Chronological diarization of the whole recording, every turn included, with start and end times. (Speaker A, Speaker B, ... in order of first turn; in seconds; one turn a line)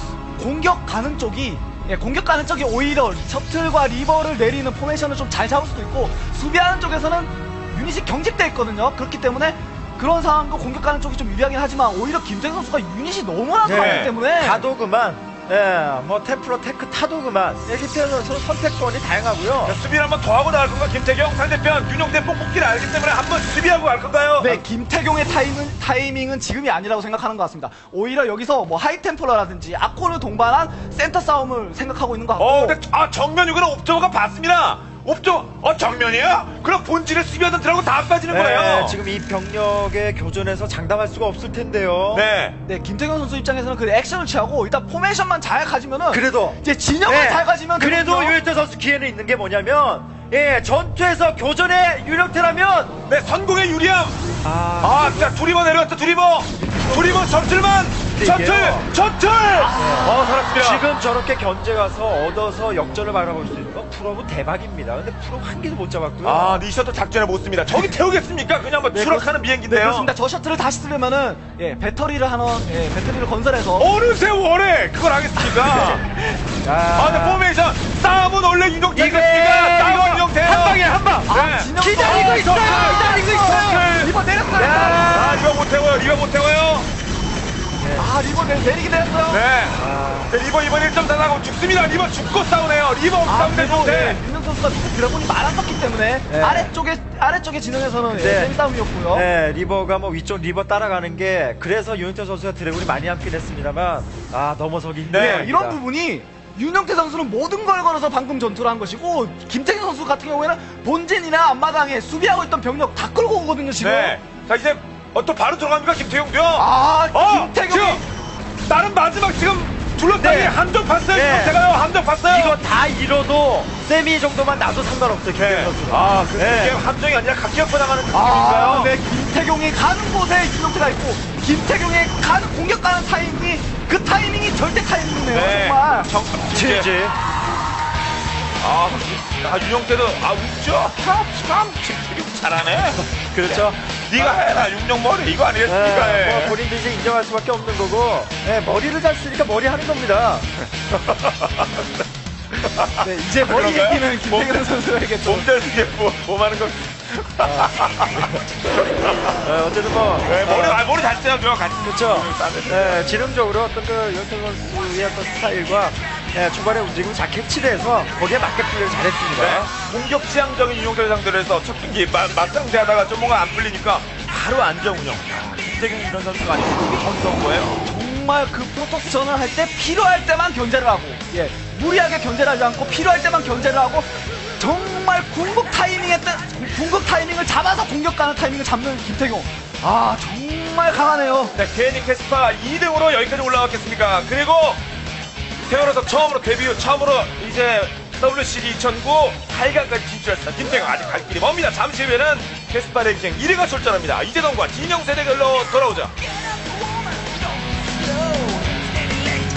Speaker A: 0.4-14.7
Speaker B: 13.7-19.8
Speaker C: 13.7-14.1
Speaker C: 19.6-24.6
Speaker A: 24.4-32.8
Speaker C: 32.4-39.0
Speaker B: 38.3-42.3
Speaker C: 42.1-42.6
Speaker A: 42.6-48.4
Speaker B: 46.1-53.0
Speaker C: 53.1-54.2
Speaker B: 54.4-55.4
Speaker C: 54.8-60.9
Speaker B: 56.6-57.3
Speaker B: 58.1-58.9
Speaker A: 59.6-60.2
Speaker B: 59.7-66.6
Speaker C: 66.2-70.1
Speaker A: 68.9-73.9
Speaker C: 73.8-76.1
Speaker B: 76.6-77.4
Speaker C: 76.9-86.9
Speaker B: 78.9-81.3
Speaker A: 81.3-85.2
Speaker B: 81.8-83.6
Speaker B: 84.6-85.5
Speaker B: 87.8-88.1
Speaker A: 88.0-89.4
Speaker C: 89.3-94.2
Speaker B: 89.8-90.3
Speaker A: 93.2-99.3
Speaker B: 96.3-96.7
Speaker B: 98.1-98.6
Speaker B: 99.1-105.8
Speaker C: 105.1-105.5
Speaker A: 105.1-114.2
Speaker C: 113.8-118.0
Speaker A: 116.6-118.0
Speaker C: 118.7-122.6
Speaker B: 120.2-121.6
Speaker B: 122.3-126.8
Speaker C: 125.3-128.9
Speaker A: 128.1-136.1
Speaker C: 135.3-136.9
Speaker B: 136.5-137.2
Speaker C: 138.6-146.6
Speaker B: 143.3-143.8
Speaker B: 145.7-150.5
Speaker C: 150.9-151.9
Speaker C: 152.6-154.7
Speaker A: 153.0-155.8
Speaker C: 155.2-159.4
Speaker B: 157.4-157.7
Speaker B: 159.4-160.8
Speaker C: 160.2-163.2
Speaker B: 161.8-169.7
Speaker C: 169.4-177.8
Speaker A: 177.8-191.5
Speaker C: 191.6-194.8
Speaker C: 195.7-206.1
Speaker A: 206.6-209.4